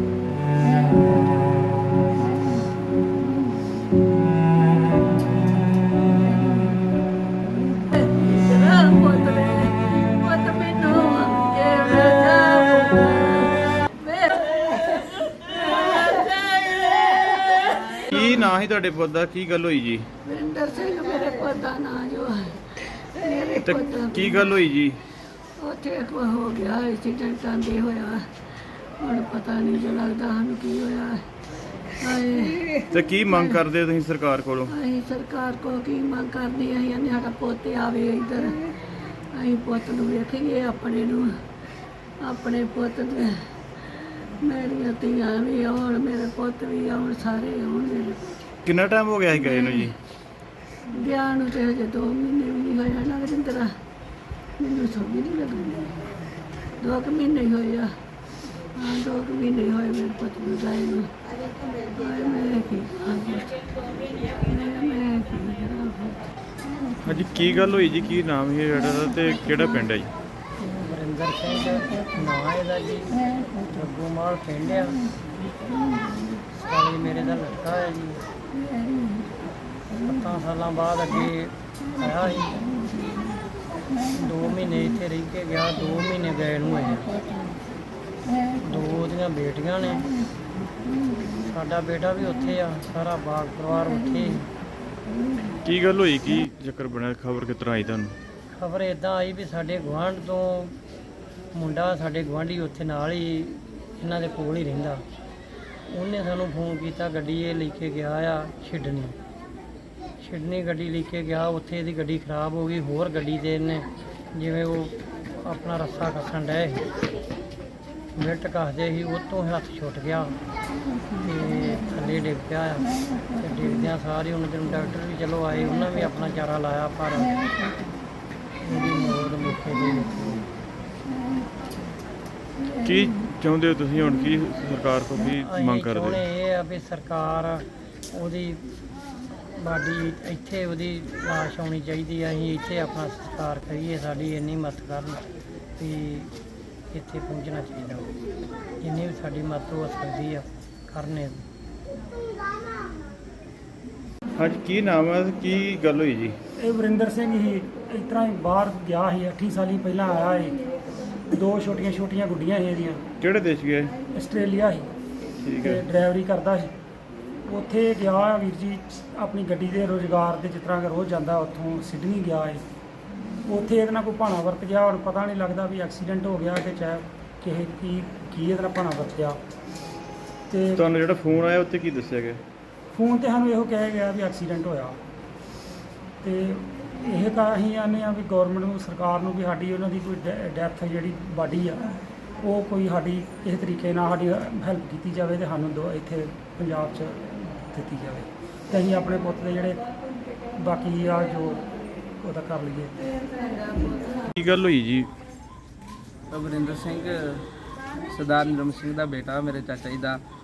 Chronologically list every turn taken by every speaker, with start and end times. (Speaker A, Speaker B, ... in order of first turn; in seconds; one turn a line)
Speaker A: 7.8-18.1
Speaker B: 18.1-20.1
Speaker A: 20.3-24.5
Speaker B: 23.6-25.0
Speaker A: 25.6-31.2
Speaker A: 32.0-32.8
Speaker B: 32.9-34.7
Speaker A: 34.7-38.8
Speaker A: 39.3-41.3
Speaker A: 42.2-48.2
Speaker B: 48.6-49.9
Speaker A: 50.9-53.7
Speaker A: 54.6-56.0
Speaker A: 56.8-57.9
Speaker A: 58.8-61.1
Speaker A: 61.9-66.2
Speaker B: 67.0-70.1
Speaker C: 70.6-75.0
Speaker C: 76.5-78.2
Speaker C: 79.9-82.7
Speaker C: 84.1-87.2
Speaker C: 88.6-90.1
Speaker C: 91.5-94.5
Speaker B: 95.7-98.2
Speaker C: 98.5-100.8
Speaker C: 101.5-105.0
Speaker C: 105.9-109.2
Speaker C: 110.2-116.9
Speaker C: 118.2-120.4
Speaker C: 121.2-127.3
Speaker C: 128.6-130.5
Speaker B: 132.8-136.2
Speaker C: 135.2-138.7
Speaker C: 139.6-145.2
Speaker C: 145.8-146.3
Speaker C: 146.9-148.1
Speaker C: 148.8-151.4
Speaker B: 154.4-156.3
Speaker D: 156.6-160.6
Speaker D: 161.3-163.0
Speaker B: 163.2-163.9
Speaker D: 164.1-164.9
Speaker B: 165.4-165.8
Speaker D: 165.6-166.7
Speaker D: 167.5-172.6
Speaker D: 173.5-179.4
Speaker D: 180.5-180.8
Speaker B: 180.8-182.4
Speaker D: 182.9-185.0
Speaker D: 186.2-191.8
Speaker D: 192.4-199.8
Speaker D: 200.6-201.6
Speaker D: 202.2-203.0
Speaker B: 204.3-205.1
Speaker E: 206.3-207.4
Speaker E: 208.1-210.2